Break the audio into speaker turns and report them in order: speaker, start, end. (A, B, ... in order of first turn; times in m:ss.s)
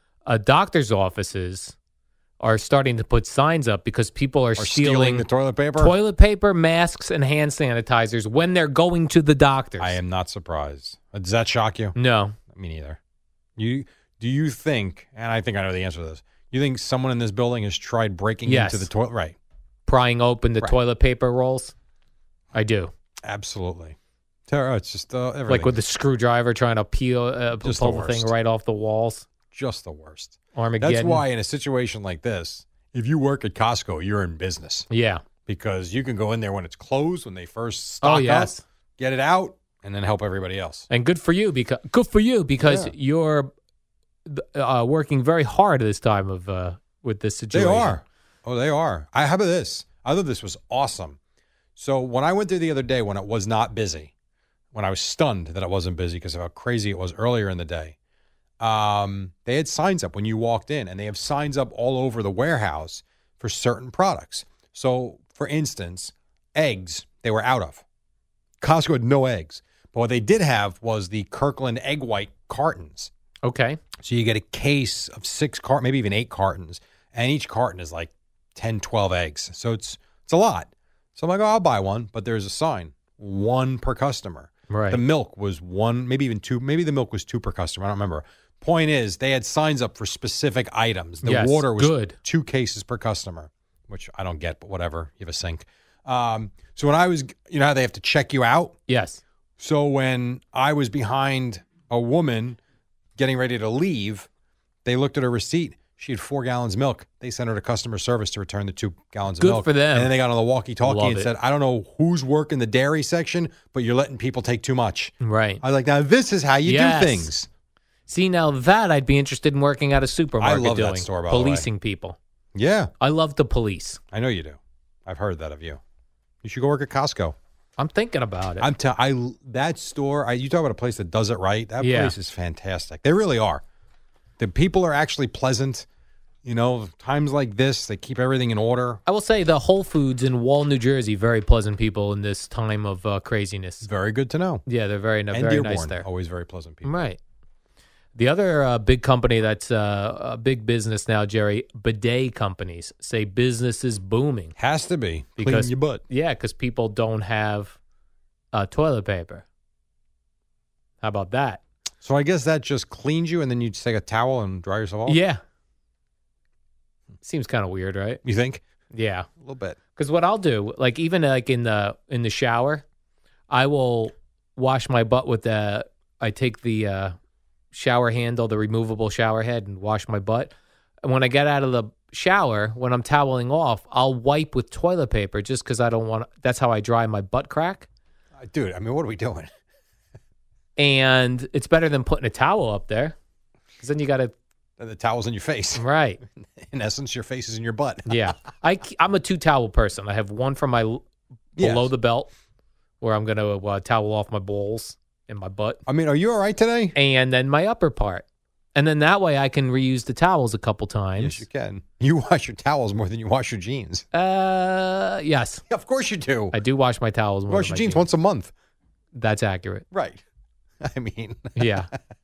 0:00.2-0:01.8 A
0:02.4-0:05.2 A
0:04.6-0:06.0 B
0:05.8-0:10.0 A
0:09.8-0:12.0 B
0:12.0-0:12.4 A
0:12.5-0:13.0 B
0:13.6-0:19.4 B
0:18.4-0:18.9 A
0:19.9-0:21.7 A
0:22.5-0:22.9 A
0:23.2-0:24.0 B
0:24.5-0:25.7 B
0:25.5-0:29.3 A
0:27.6-0:28.3 B
0:29.5-0:34.9 B
0:30.6-0:31.2 A
0:34.9-0:35.2 A
0:35.4-0:40.9 B
0:38.0-0:38.6 A
0:40.9-0:43.5 A
0:42.6-0:42.9 B
0:44.2-0:48.0 A
0:47.5-0:51.2 B
0:51.8-0:54.1 B
0:54.7-0:58.0 B
0:58.6-1:07.8 B
1:08.6-1:13.1 B
1:13.4-1:13.8 A
1:14.0-1:38.8 B
1:24.7-1:25.0 A
1:31.2-1:32.1 A
1:38.9-1:39.2 A
1:39.6-1:42.6 B
1:43.2-1:44.3 B
1:44.8-1:57.5 B
1:49.4-1:50.1 A
1:50.8-1:51.3 A
1:55.2-1:55.6 A
1:56.6-1:57.3 A
1:58.1-2:02.2 A
2:00.4-2:01.7 B
2:02.5-2:02.9 B
2:03.0-2:04.0 A
2:04.1-2:05.8 B
2:06.4-2:07.4 B
2:07.8-2:08.7 A
2:08.6-2:13.6 B
2:11.8-2:12.1 A
2:14.4-2:15.9 B
2:16.4-2:19.0 B
2:19.1-2:23.9 A
2:23.8-2:24.6 B
2:24.6-2:26.0 A
2:25.3-2:26.9 B
2:26.8-2:27.2 A
2:28.1-2:34.5 A
2:34.6-2:36.0 B
2:35.4-2:37.8 A
2:38.5-2:39.4 A
2:41.0-2:41.6 A
2:42.0-2:45.2 B
2:45.1-2:45.4 A
2:47.2-2:48.2 A
2:48.2-2:48.6 B
2:48.9-2:49.3 A
2:49.4-2:49.8 B
2:50.0-2:52.8 A
2:53.5-2:57.2 A
2:57.7-3:07.9 A
3:08.4-3:09.5 B
3:10.8-3:13.2 A
3:13.8-3:14.3 A
3:14.8-3:15.8 B
3:15.8-3:16.2 A
3:16.6-3:18.2 B
3:18.1-3:21.0 A
3:21.6-3:21.9 B
3:21.6-3:22.3 A
3:23.0-3:25.8 A
3:25.9-3:27.0 B
3:27.0-3:31.4 A
3:31.2-3:34.0 B
3:34.1-3:35.6 A
3:35.7-3:36.5 B
3:36.5-3:38.0 A
3:37.5-3:38.5 B
3:39.2-3:39.8 A
3:39.9-3:40.2 B
3:40.8-3:41.8 B
3:41.6-3:41.9 A